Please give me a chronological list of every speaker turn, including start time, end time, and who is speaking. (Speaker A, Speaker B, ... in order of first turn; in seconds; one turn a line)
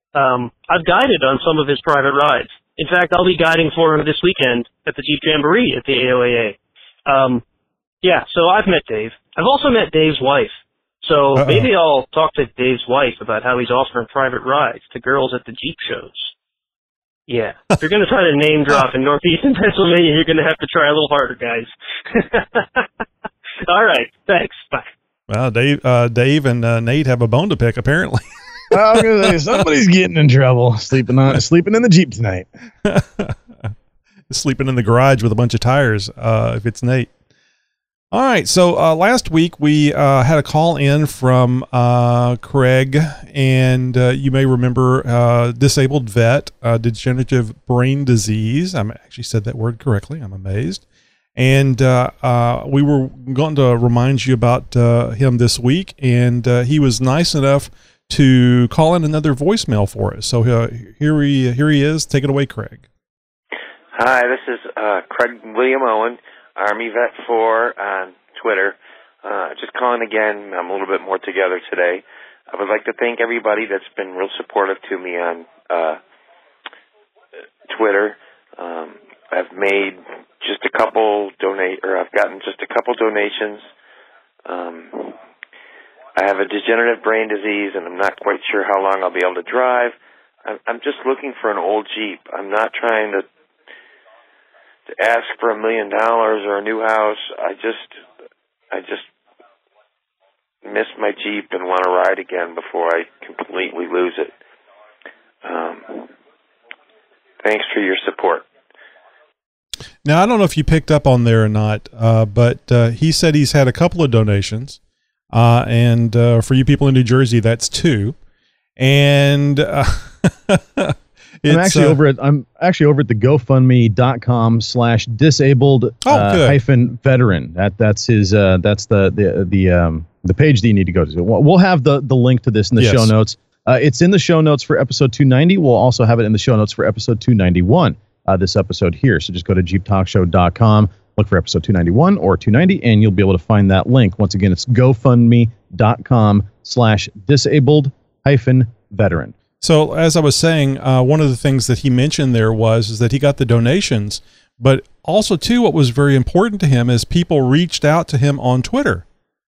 Speaker A: 0.1-7.4
Speaker A: 8.0-16.3
Speaker B: 11.4-11.7
Speaker A: 17.3-22.9
Speaker A: 23.7-24.9
Speaker B: 25.3-29.3
Speaker C: 28.7-32.5
Speaker B: 32.9-33.4
Speaker B: 34.3-37.1
Speaker B: 38.1-50.8
Speaker B: 51.4-62.9
Speaker D: 64.0-76.0
Speaker D: 77.7-83.7
Speaker D: 84.5-85.2
Speaker D: 86.2-93.3
Speaker D: 94.9-98.0
Speaker D: 98.7-99.1
Speaker D: 100.6-104.3
Speaker D: 105.4-106.1
Speaker D: 107.4-108.5
Speaker B: 110.0-114.8
Speaker B: 115.3-118.2
Speaker B: 118.8-122.0
Speaker C: 121.5-149.3
Speaker B: 126.0-126.6
Speaker B: 132.8-133.1
Speaker B: 149.6-159.1